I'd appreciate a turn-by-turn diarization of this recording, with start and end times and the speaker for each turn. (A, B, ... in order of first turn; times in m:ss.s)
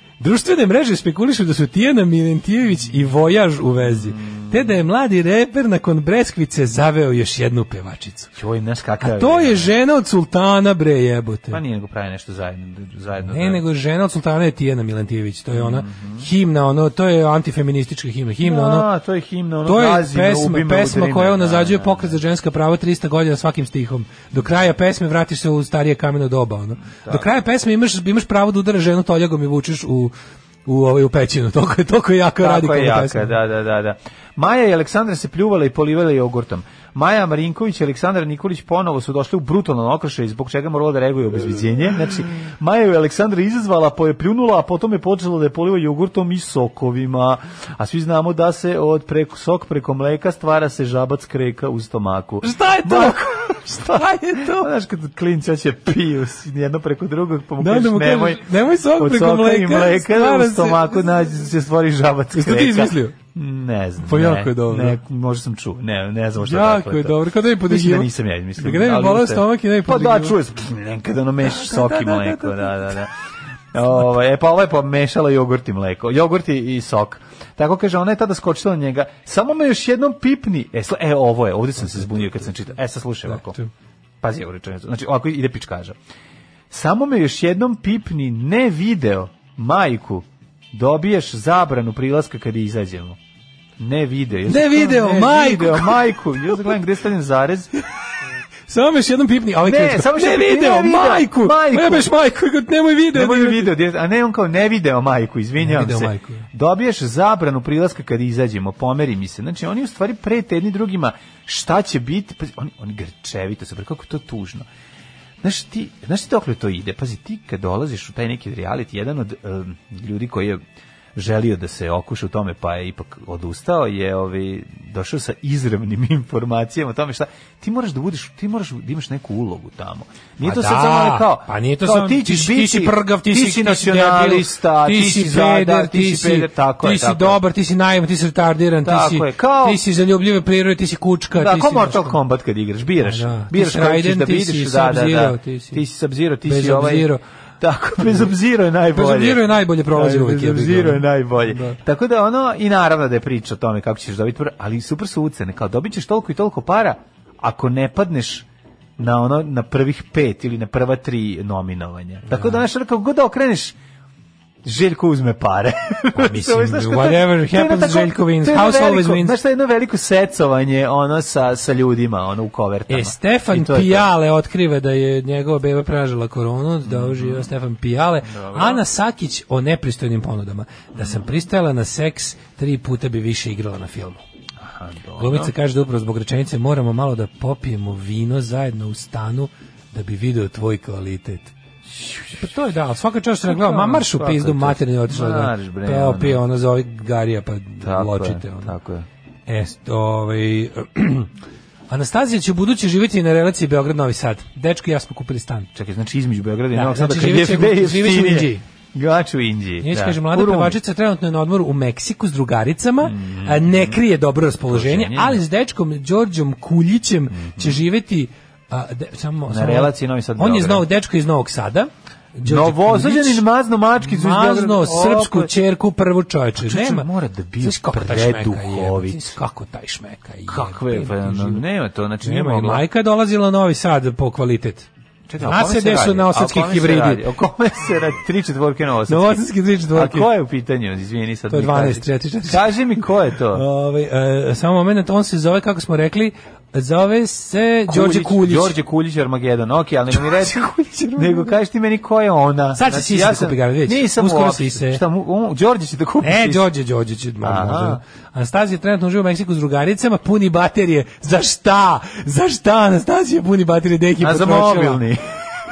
0:00.2-0:08.3 A
0:03.8-0:04.6 B
0:08.4-0:09.7 B
0:09.0-0:11.6 A
0:11.5-0:13.6 B
0:13.3-0:18.9 A
0:15.5-0:16.3 B
0:18.4-0:22.2 B
0:19.6-0:30.1 A
0:26.9-0:27.3 B
0:30.7-0:33.3 A
0:32.4-1:13.1 B
0:52.4-0:54.7 A
0:57.6-1:01.0 A
1:02.3-1:03.2 A
1:04.0-1:05.0 A
1:06.4-1:10.4 A
1:11.4-1:12.9 A
1:13.7-1:23.6 B
1:21.9-1:22.3 A
1:23.3-1:23.7 A
1:24.2-1:26.0 B
1:26.7-1:33.2 B
1:33.8-1:37.7 B
1:34.5-1:36.1 A
1:38.7-1:43.7 A
1:39.6-1:42.1 B
1:43.1-1:54.7 B
1:45.6-1:46.4 A
1:55.4-2:00.6 B
2:01.2-2:17.4 B
2:10.4-2:22.2 A
2:18.8-2:19.8 B
2:21.3-2:38.5 B
2:23.0-2:25.8 A
2:26.4-2:27.2 A
2:28.9-2:31.8 A
2:39.0-2:43.8 B
2:42.3-2:42.6 A
2:44.6-2:54.1 B
2:46.2-2:49.4 A
2:52.9-3:04.2 A
2:56.8-2:57.5 B
2:58.2-2:58.8 B
3:01.0-3:01.3 B
3:04.6-3:05.5 B
3:05.2-3:11.5 A
3:11.9-3:12.4 B
3:12.3-3:18.7 A
3:13.5-3:16.4 B
3:17.8-3:19.1 B
3:19.5-3:21.3 A
3:21.9-3:25.7 A
3:25.8-3:30.8 B
3:26.7-3:28.6 A
3:29.8-3:43.4 A
3:33.0-3:34.0 B
3:34.7-3:35.4 B
3:37.3-3:37.8 B
3:39.5-3:40.9 B
3:42.4-3:45.5 B
3:44.0-3:47.1 A
3:46.6-3:49.4 B
3:47.6-3:51.6 A
3:50.5-3:52.8 B
3:52.2-3:54.9 A
3:55.3-4:03.6 B
3:55.4-3:57.2 A
3:59.1-4:00.3 A
4:01.5-4:02.8 A
4:03.5-4:08.8 A
4:07.9-4:10.6 B
4:10.1-4:11.6 A
4:11.2-4:16.6 B
4:12.8-4:15.0 A
4:16.2-4:25.0 A
4:17.4-4:18.0 B
4:24.2-4:25.2 B